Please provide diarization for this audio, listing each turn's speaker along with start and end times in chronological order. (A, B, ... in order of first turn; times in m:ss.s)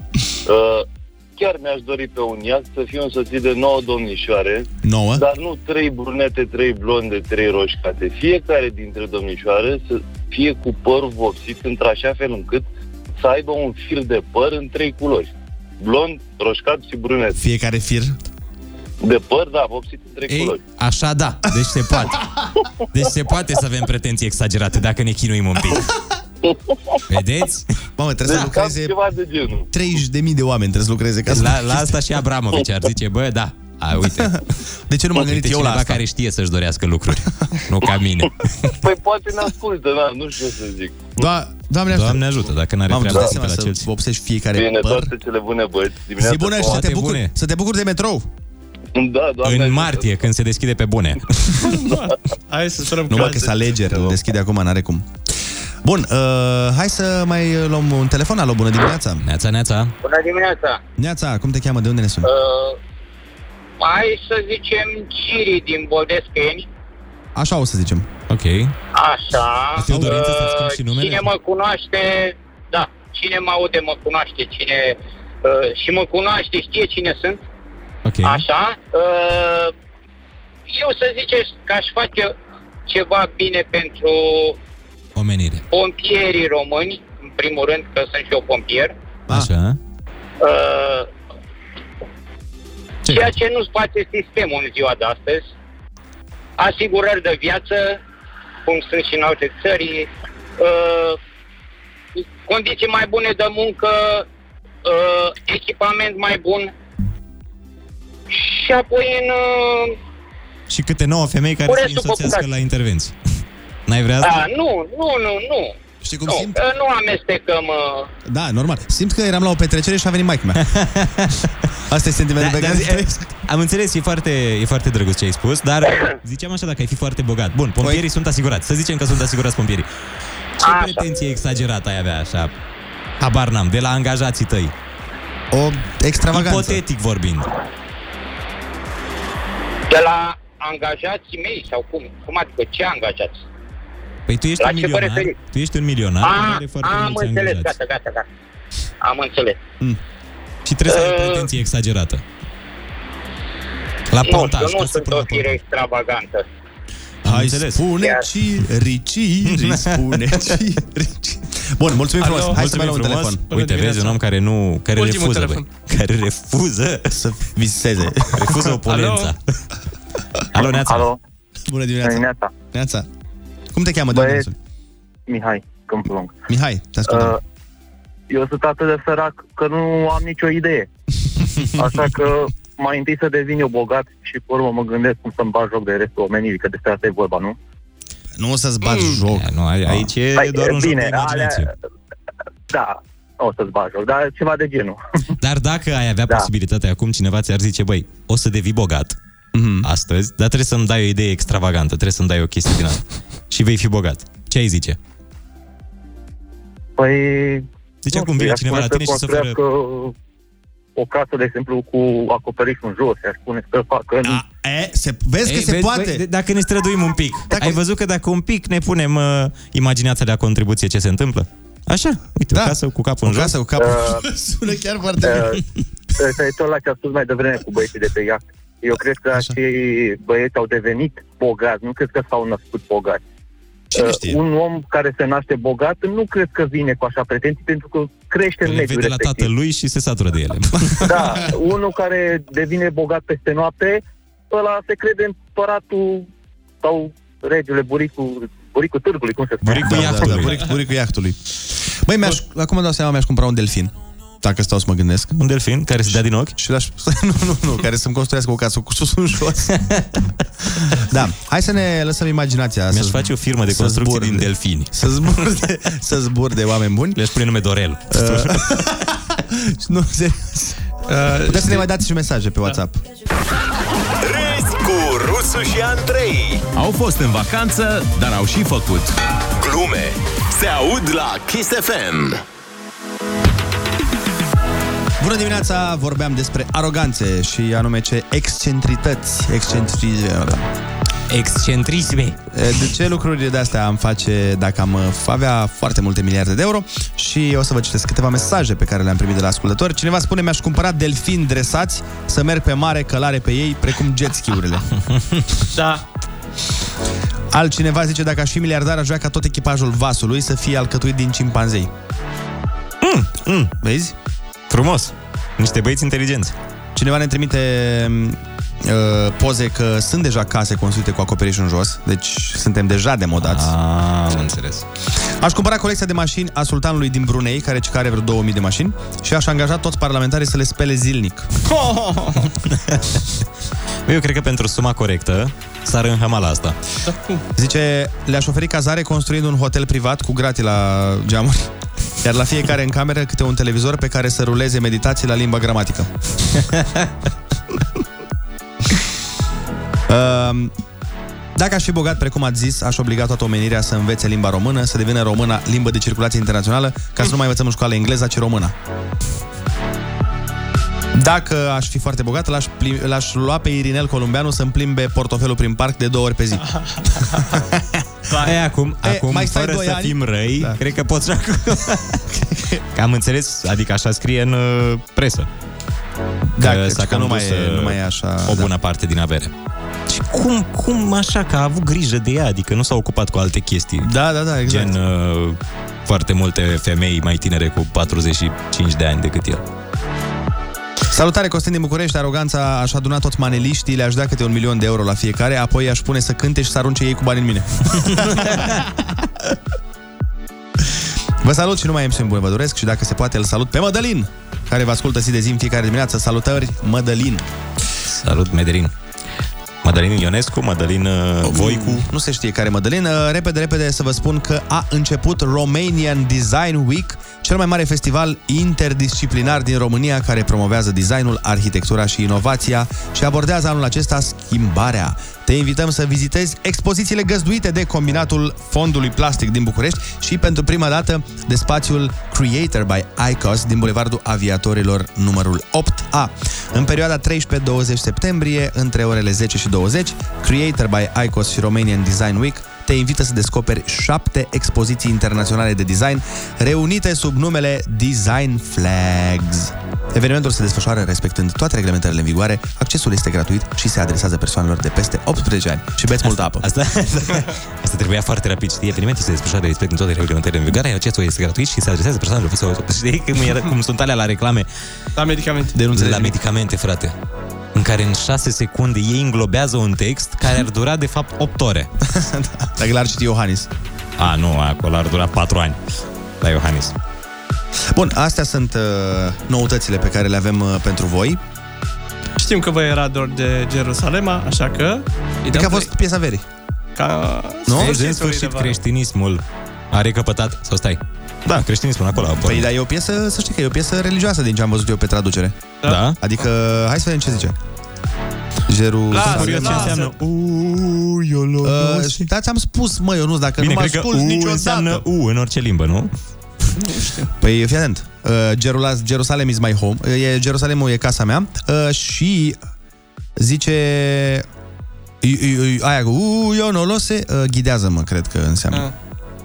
0:00.4-0:12.6 A
0:04.8-0:05.2 B
0:13.2-0:17.4 A
0:17.4-0:18.1 B
0:19.0-0:20.6 A
0:20.3-0:22.3 C
0:22.9-0:25.9 C
0:27.1-0:27.7 C
0:28.0-0:28.9 B
0:28.2-0:29.7 A
0:29.7-0:31.9 B
0:31.3-0:34.4 C
0:34.2-0:36.0 B
0:35.1-0:38.7 C
0:38.7-0:41.1 A
0:41.2-0:42.3 B
0:41.9-0:43.9 C
0:42.9-0:45.1 B
0:44.6-0:46.8 A
0:46.2-0:48.3 B
0:46.6-0:47.3 C
0:49.0-0:50.2 A
0:49.4-0:51.4 C
0:51.6-0:53.6 D
0:53.1-0:55.1 B
0:53.9-0:54.2 A
0:55.8-0:59.2 B
0:59.2-0:59.9 C
1:00.0-1:00.8 E
1:01.0-1:02.3 B
1:02.2-1:02.8 E
1:03.8-1:06.7 E
1:07.4-1:08.1 B
1:08.3-1:08.7 C
1:08.9-1:17.4 E
1:09.8-1:11.3 C
1:18.0-1:18.4 C
1:18.2-1:19.7 E
1:20.7-1:22.3 E
1:22.9-1:24.6 E
1:25.2-1:25.6 C
1:25.7-1:28.9 E
1:29.3-1:29.8 C
1:30.4-1:31.1 E
1:33.0-1:33.3 C
1:33.1-1:35.5 E
1:36.6-1:38.0 E
1:38.7-1:41.2 E
1:42.2-1:44.3 E
1:44.8-1:46.7 E
1:48.3-1:50.0 E
1:50.7-1:53.1 C
1:51.7-1:52.5 E
1:53.9-1:54.4 C
1:54.2-1:55.7 E
1:56.0-1:56.6 B
1:56.3-1:58.1 E
1:58.3-2:00.6 B
2:00.6-2:01.4 C
2:01.9-2:03.3 B
2:02.4-2:09.9 C
2:10.6-2:12.5 C
2:10.6-2:11.1 E
2:13.2-2:14.7 C
2:15.5-2:16.8 B
2:16.3-2:17.5 C
2:19.9-2:23.4 E
2:24.3-2:27.7 C
2:24.6-2:25.3 E
2:26.2-2:28.3 E
2:29.0-2:29.6 E
2:30.6-2:32.2 C
2:30.9-2:31.5 E
2:34.1-2:35.6 C
2:34.2-2:36.5 E
2:37.2-2:37.9 C
2:37.2-2:43.4 B
2:38.0-2:38.3 E
2:39.4-2:40.6 C
2:42.2-2:42.6 D
2:42.3-2:47.2 C
2:43.5-2:44.2 D
2:45.0-2:45.7 D
2:47.1-2:48.6 B
2:48.3-2:49.4 C
2:48.9-2:49.3 D
2:50.5-2:51.1 C
2:50.7-2:51.2 F
2:51.7-2:53.1 B
2:52.0-2:52.6 F
2:53.7-2:54.6 B
2:54.1-2:54.4 F
2:55.3-2:56.4 F
2:56.5-2:57.4 B
2:57.1-2:57.4 F
2:58.3-3:00.9 F
3:01.8-3:07.6 F
3:08.4-3:10.1 B
3:08.8-3:09.2 D
3:09.3-3:11.7 C
3:10.4-3:11.7 F
3:12.7-3:15.0 F
3:15.4-3:19.2 C
3:19.5-3:19.9 B
3:19.8-3:25.0 C
3:27.0-3:30.1 F
3:28.0-3:29.6 C
3:31.0-3:34.4 F
3:34.2-3:36.2 B
3:35.4-3:43.6 C
3:37.5-3:37.8 B
3:42.5-3:45.6 B
3:43.8-3:44.2 F
3:45.2-3:45.6 F
3:46.2-3:53.2 F
3:53.9-3:54.4 B
3:54.0-3:59.5 F
3:58.6-4:01.3 C
4:01.0-4:06.3 F
4:06.8-4:10.1 F
4:09.6-4:10.7 C
4:09.7-4:11.4 B
4:12.0-4:15.3 B
4:15.3-4:16.6 C
4:16.0-4:19.8 B
4:19.7-4:20.1 C
4:21.1-4:27.2 B
4:22.9-4:25.5 C
4:27.1-4:29.0 C
4:28.1-4:30.9 B
4:31.1-4:31.9 D
4:31.4-4:33.0 B
4:34.2-4:36.6 G
4:36.7-4:39.1 H
4:39.6-4:42.4 G
4:45.2-4:50.7 B
4:51.3-4:52.4 C
4:52.5-5:04.8 B
5:05.7-5:06.0 D
5:07.5-5:11.9 B
5:13.0-5:13.7 C
5:13.8-5:14.1 B
5:14.7-5:16.6 C
5:17.0-5:23.7 B
5:23.4-5:24.9 C
5:25.4-5:31.5 B
5:31.7-5:32.4 D
5:32.7-5:33.2 C
5:34.1-5:36.8 C
5:37.0-5:37.4 D
5:37.6-5:41.7 B
5:42.2-5:46.1 B
5:50.1-5:50.7 B
5:51.6-5:58.7 B
6:01.1-6:06.6 B
6:07.4-6:07.8 B
6:08.3-6:12.3 C
6:09.0-6:10.8 B
6:12.9-6:15.5 C
6:16.6-6:18.7 B
6:16.6-6:19.5 C
6:20.1-6:29.6 C
6:24.0-6:24.9 B
6:31.1-6:38.8 B
6:41.4-6:47.4 B
6:48.0-6:48.9 C
6:49.8-6:52.1 C
6:51.4-7:36.6 B
7:36.2-7:44.7 C
7:45.2-7:45.8 D
7:45.7-7:46.3 B
7:45.9-7:47.1 C
7:47.7-7:51.9 C
7:52.1-7:53.7 B
7:54.2-7:55.8 C
7:56.4-7:57.0 C
7:57.9-8:01.4 B
8:02.4-8:05.9 D
8:05.5-8:06.4 B
8:07.0-8:08.8 D
8:07.7-8:07.9 B
8:07.7-8:12.7 C
8:12.4-8:15.6 B
8:15.8-8:16.2 C
8:16.2-8:17.5 B
8:18.7-8:20.0 B
8:19.1-8:20.1 D
8:19.1-8:22.3 C
8:21.6-8:25.0 B
8:23.6-8:26.1 C
8:26.8-8:27.3 D
8:27.4-8:32.6 B
8:33.4-8:34.4 B
8:35.2-8:38.9 B